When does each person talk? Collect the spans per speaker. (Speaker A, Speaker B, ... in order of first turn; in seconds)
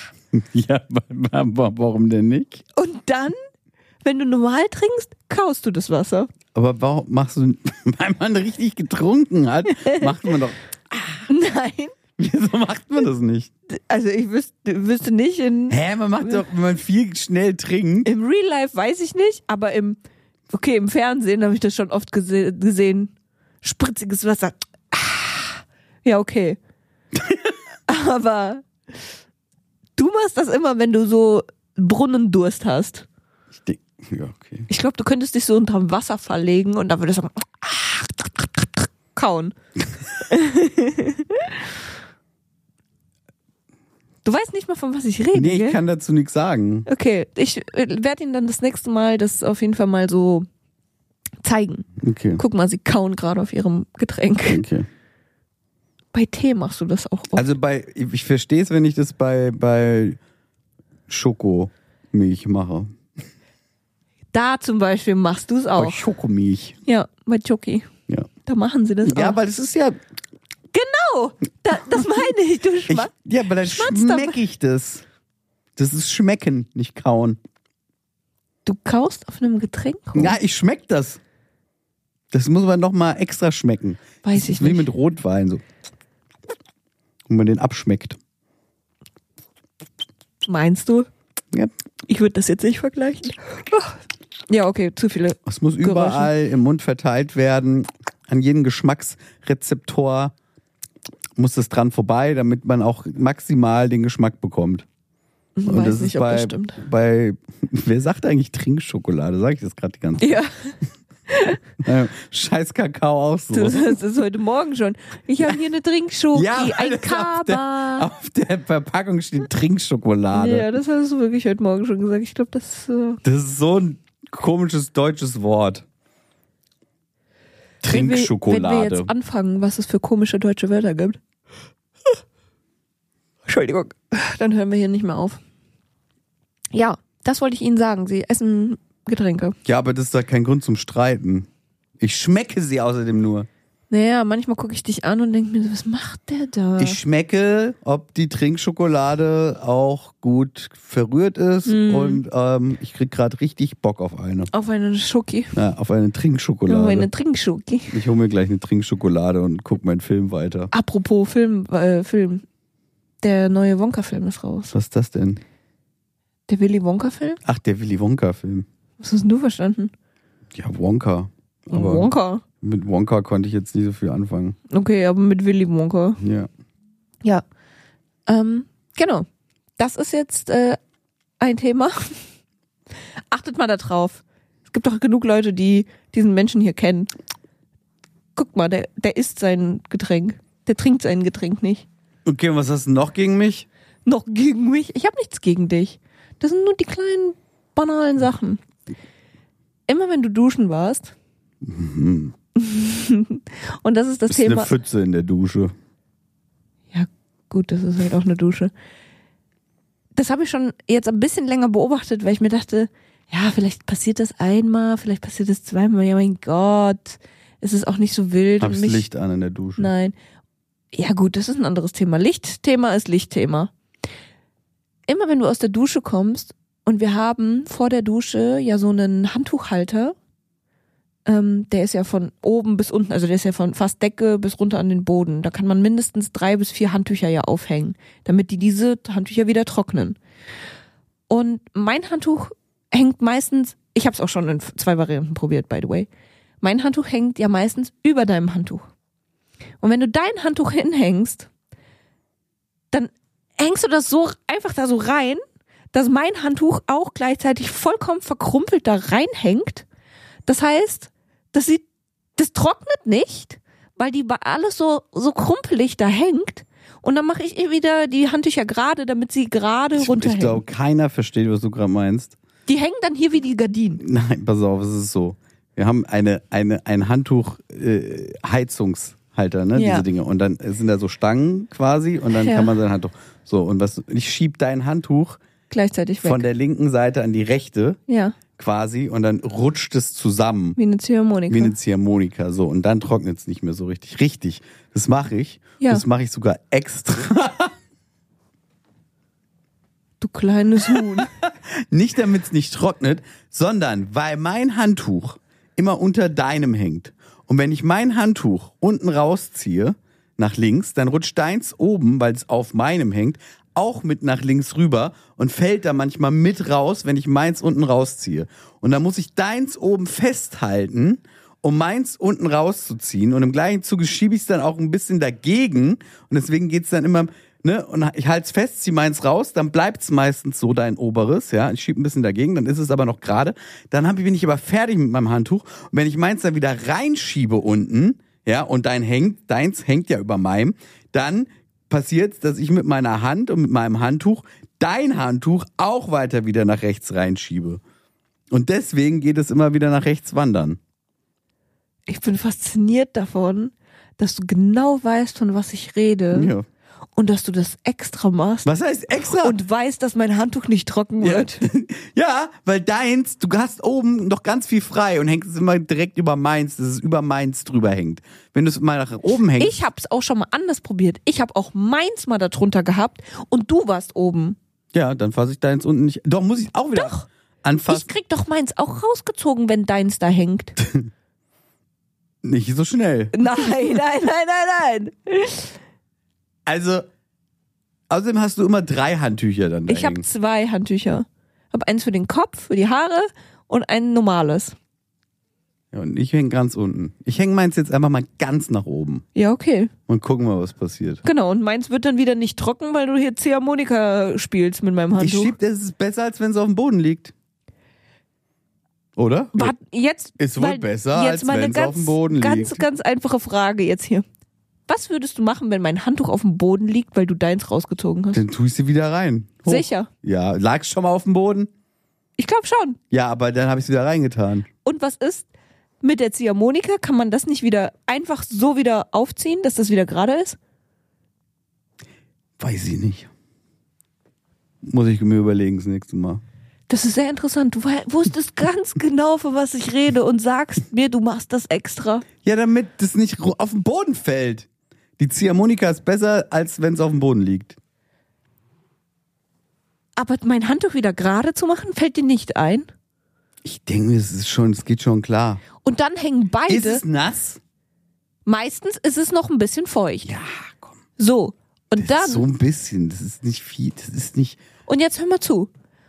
Speaker A: 0.3-2.6, 6.5-11.3, 12.2-13.5, 15.7-18.1, 27.2-27.5, 33.5-34.7, 45.3-46.9, 52.0-52.4, 54.5-54.9, 57.3-60.2, 61.1-62.9, 65.8-66.8, 69.0-70.0, 72.9-75.0, 75.8-77.4, 80.1-81.2, 82.3-85.6, 87.3-88.2, 95.5-100.3, 101.4-104.9, 105.7-110.4, 111.8-114.0, 116.3-120.7, 123.2-125.8, 127.8-129.1, 139.7-141.5, 142.0-143.5, 146.8-154.5, 155.5-157.1, 157.9-160.7, 164.7-165.4, 167.4-168.7, 170.5-174.6, 176.2-176.5, 192.2-193.7, 201.6-202.3, 204.3-205.7, 218.6-219.9, 269.9-272.4, 274.0-285.4, 286.2-288.0, 288.6-290.8, 291.5-297.7, 300.9-347.8, 348.5-350.8, 356.3-356.7, 358.6-359.6, 361.2-369.8, 374.9-378.1, 382.4-384.0, 386.7-387.1, 388.1-390.2, 395.9-399.2, 400.1-401.2, 405.2-407.3, 409.2-409.7, 410.4-412.8, 418.3-421.7, 423.1-424.7, 432.6-433.3, 434.8-436.4, 442.4-444.7, 445.2-447.8, 453.6-455.6, 456.7-457.6, 460.2-460.9, 462.0-464.6
Speaker B: 2.8-3.4, 4.0-6.3, 9.7-10.1, 11.3-12.0, 13.7-16.4, 18.1-20.0, 20.5-26.6, 27.9-28.7, 30.0-33.1, 34.7-39.5, 40.3-41.6, 44.2-45.8, 46.9-50.5, 51.4-54.6, 56.1-57.5, 64.3-66.0, 66.9-67.9, 68.5-69.4, 70.7-74.4, 78.7-80.4, 84.2-84.9, 90.5-91.1, 92.1-96.3, 105.6-106.8, 110.2-110.7, 111.3-111.6, 113.5-118.1, 120.3-123.2, 127.9-131.2, 133.5-135.4, 136.7-139.6, 143.9-147.0, 151.7-152.2, 154.5-155.6, 156.7-158.0, 160.7-162.4, 163.2-164.7, 166.5-167.4, 169.0-169.9, 171.7-172.4, 174.7-176.2, 178.3-179.3, 179.8-180.8, 181.4-182.2, 183.3-187.1, 188.4-191.9, 194.1-198.6, 199.9-201.1, 202.6-204.7, 206.9-208.7, 210.2-219.1, 219.8-220.1, 220.9-223.7, 225.1-230.2, 231.3-240.2, 241.3-246.1, 246.6-248.8, 249.8-251.5, 252.9-255.4, 255.9-259.9, 260.5-261.8, 262.4-270.6, 272.7-274.0, 279.8-280.1, 282.3-282.7, 285.7-286.5, 288.1-288.4, 290.8-291.7, 295.8-296.1, 300.2-301.3, 352.1-356.5, 357.2-358.7, 359.4-361.6, 369.6-374.6, 376.9-377.3, 377.9-380.8, 383.3-385.8, 389.9-394.8, 399.4-399.9, 401.2-405.6, 409.6-414.2, 414.9-418.4, 419.7-420.1, 422.4-423.0, 424.8-425.5, 426.0-430.6, 436.9-442.3, 450.2-452.9, 455.8-457.0, 458.5-460.3, 461.2-462.5, 464.9-465.7